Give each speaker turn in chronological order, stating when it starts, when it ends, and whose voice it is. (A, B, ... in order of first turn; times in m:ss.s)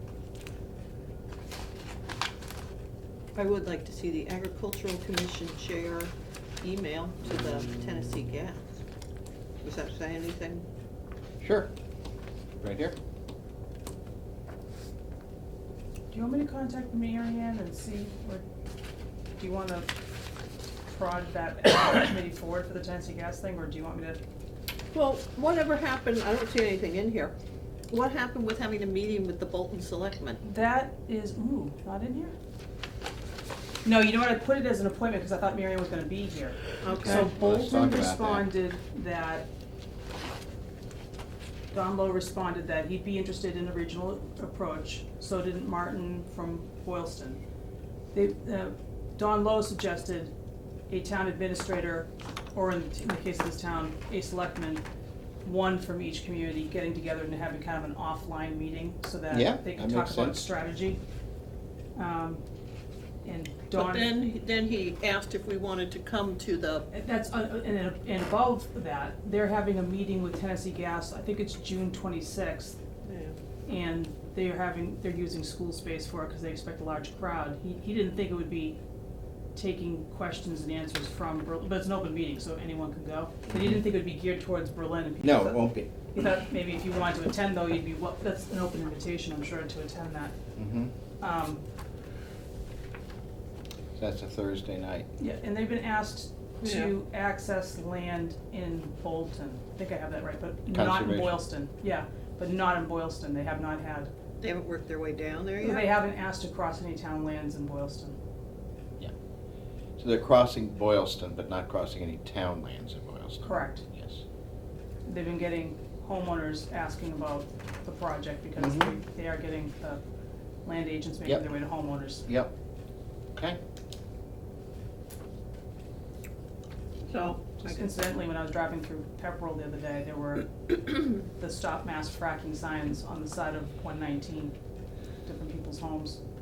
0:03.3-0:08.8 A
0:09.6-0:10.6 A
0:11.4-0:11.7 B
0:12.6-0:12.9 B
0:16.1-0:18.4 C
0:19.4-0:19.9 C
0:20.8-0:24.2 C
0:24.9-0:27.3 A
0:27.9-0:30.4 A
0:30.4-0:32.3 C
0:33.8-0:39.5 C
0:36.8-0:37.3 A
0:37.0-0:38.5 B
0:41.7-0:47.4 C
0:48.1-0:50.3 C
0:50.9-0:54.8 C
0:55.4-1:01.0 C
0:59.3-1:00.4 B
1:01.9-1:02.4 C
1:03.2-1:04.1 C
1:03.7-1:06.9 A
1:06.9-1:12.8 C
1:13.0-1:13.4 A
1:13.6-1:18.8 C
1:19.5-1:25.6 C
1:23.5-1:23.9 B
1:25.2-1:25.9 B
1:26.1-1:30.3 C
1:30.6-1:30.9 B
1:31.2-1:31.6 C
1:34.0-1:35.1 B
1:35.2-1:44.1 C
1:36.6-1:36.9 A
1:40.7-1:41.4 B
1:44.4-1:45.9 A
1:45.6-1:48.2 C
1:50.0-1:54.2 B
1:53.4-1:53.8 C
1:55.0-2:00.0 C
1:58.6-1:58.9 B
2:00.6-2:02.2 C
2:02.2-2:02.5 B
2:07.1-2:07.7 A
2:07.4-2:14.6 C
2:15.2-2:16.2 C